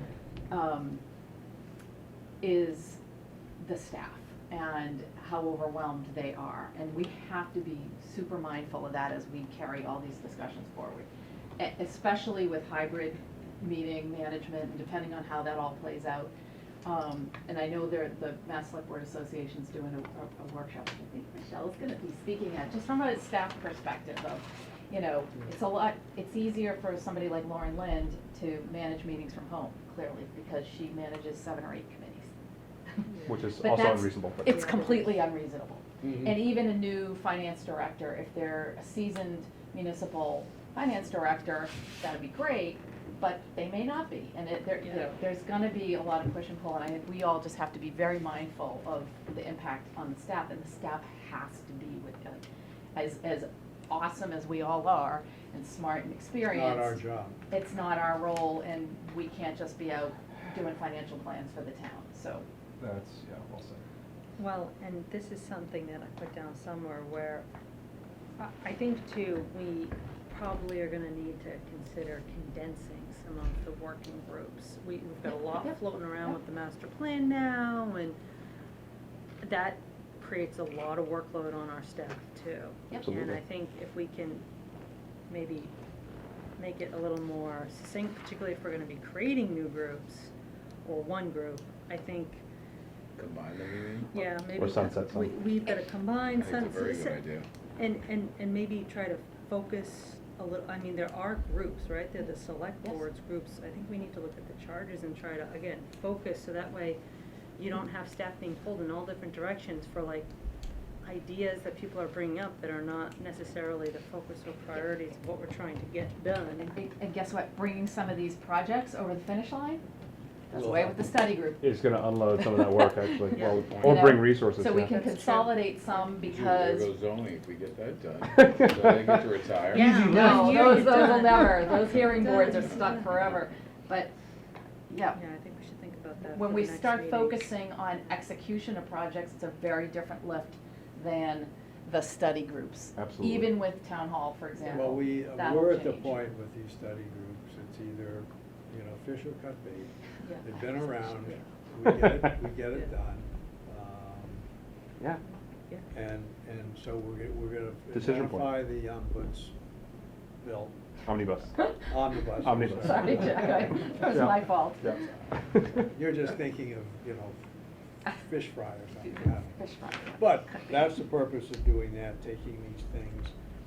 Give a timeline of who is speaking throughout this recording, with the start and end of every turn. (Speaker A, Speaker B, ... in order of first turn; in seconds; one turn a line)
Speaker A: 0.5-1.0
Speaker A: 2.4-3.0
Speaker A: 3.6-16.3
Speaker A: 16.9-32.3
Speaker B: 33.1-33.4
Speaker C: 33.3-34.7
Speaker A: 33.6-62.5
Speaker B: 34.5-35.0
Speaker B: 44.8-45.1
Speaker D: 56.5-57.4
Speaker C: 62.8-63.8
Speaker B: 64.4-67.5
Speaker B: 68.4-78.2
Speaker A: 75.3-75.8
Speaker B: 79.4-84.5
Speaker C: 83.0-83.4
Speaker B: 85.3-85.7
Speaker B: 86.6-90.3
Speaker B: 90.8-92.4
Speaker E: 93.2-94.2
Speaker B: 94.1-97.2
Speaker C: 94.5-95.3
Speaker E: 96.3-97.5
Speaker B: 97.8-107.0
Speaker B: 107.6-110.3
Speaker B: 111.0-116.8
Speaker A: 116.7-119.8
Speaker A: 120.5-121.7
Speaker D: 120.5-121.0
Speaker C: 121.6-124.9
Speaker B: 123.3-123.6
Speaker E: 123.7-124.1
Speaker A: 123.8-126.9
Speaker B: 124.9-125.6
Speaker E: 126.2-130.8
Speaker C: 128.3-129.2
Speaker B: 129.7-133.2
Speaker A: 129.8-134.1
Speaker C: 129.8-130.8
Speaker E: 132.1-133.4
Speaker A: 134.9-135.2
Speaker B: 135.1-137.5
Speaker A: 136.3-146.2
Speaker C: 143.0-143.6
Speaker D: 144.7-154.4
Speaker A: 150.2-151.4
Speaker C: 151.9-152.3
Speaker D: 155.9-159.5
Speaker C: 157.9-158.5
Speaker D: 160.4-160.8
Speaker C: 161.1-161.7
Speaker D: 161.9-163.6
Speaker C: 162.4-163.6
Speaker A: 162.8-165.2
Speaker C: 164.1-165.0
Speaker D: 165.7-167.4
Speaker D: 168.1-169.6
Speaker A: 169.0-170.7
Speaker D: 170.2-173.3